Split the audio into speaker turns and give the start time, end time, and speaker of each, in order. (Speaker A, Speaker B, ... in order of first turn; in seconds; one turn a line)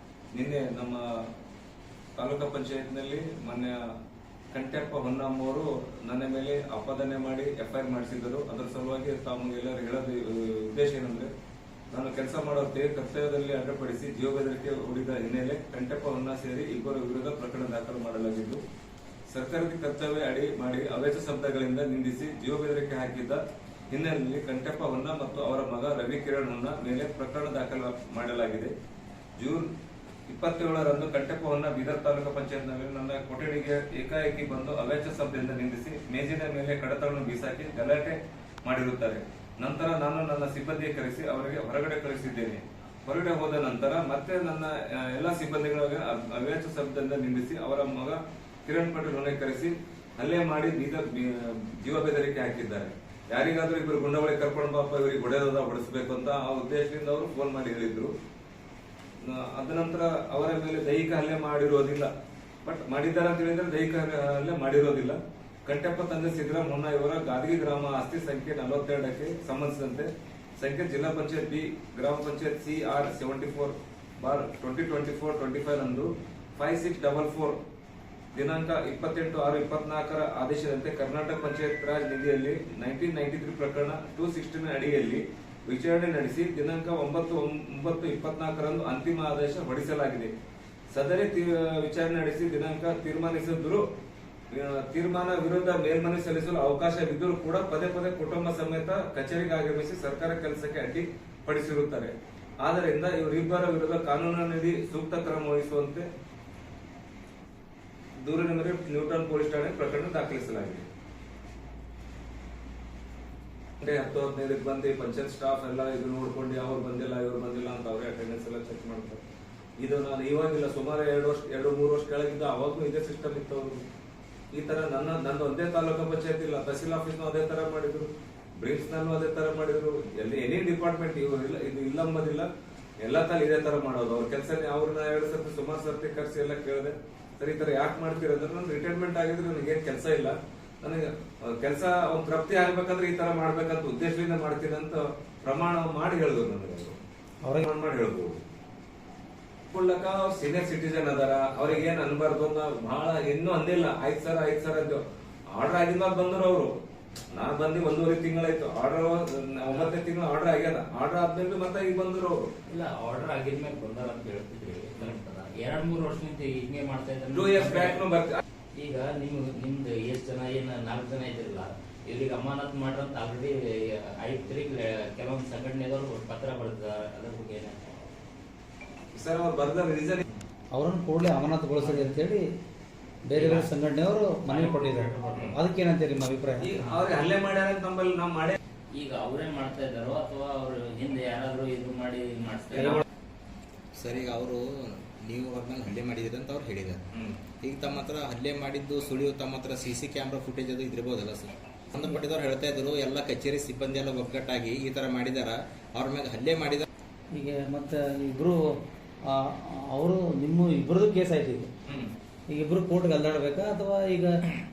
Speaker A: 0.3-1.0
Speaker A: 2.2-3.8
Speaker A: 4.5-11.3
Speaker A: 11.9-18.6
Speaker A: 19.3-28.7
Speaker A: 29.4-29.7
Speaker A: 30.3-58.1
Speaker A: 59.2-62.1
Speaker A: 62.6-77.6
Speaker A: 78.3-90.3
Speaker A: 90.9-93.8
Speaker A: 94.5-106.0
Speaker A: 108.2-110.8
Speaker A: 113.8-119.2
Speaker A: 119.8-123.8
Speaker A: 124.5-132.5
Speaker A: 133.0-147.0
Speaker A: 147.6-148.4
Speaker A: 149.7-156.7
Speaker A: 157.3-162.4
Speaker B: 162.7-168.0
Speaker A: 167.3-168.4
Speaker B: 168.8-173.5
Speaker B: 174.2-177.8
Speaker A: 179.1-180.2
Speaker C: 180.7-182.4
Speaker B: 181.8-182.2
Speaker C: 183.3-186.8
Speaker B: 183.3-183.7
Speaker B: 184.5-185.6
Speaker A: 186.6-188.6
Speaker B: 188.9-193.0
Speaker C: 192.8-193.0
Speaker D: 193.9-197.0
Speaker A: 197.1-197.4
Speaker D: 197.6-206.9
Speaker C: 207.3-208.6
Speaker C: 209.3-211.7
Speaker C: 212.5-214.3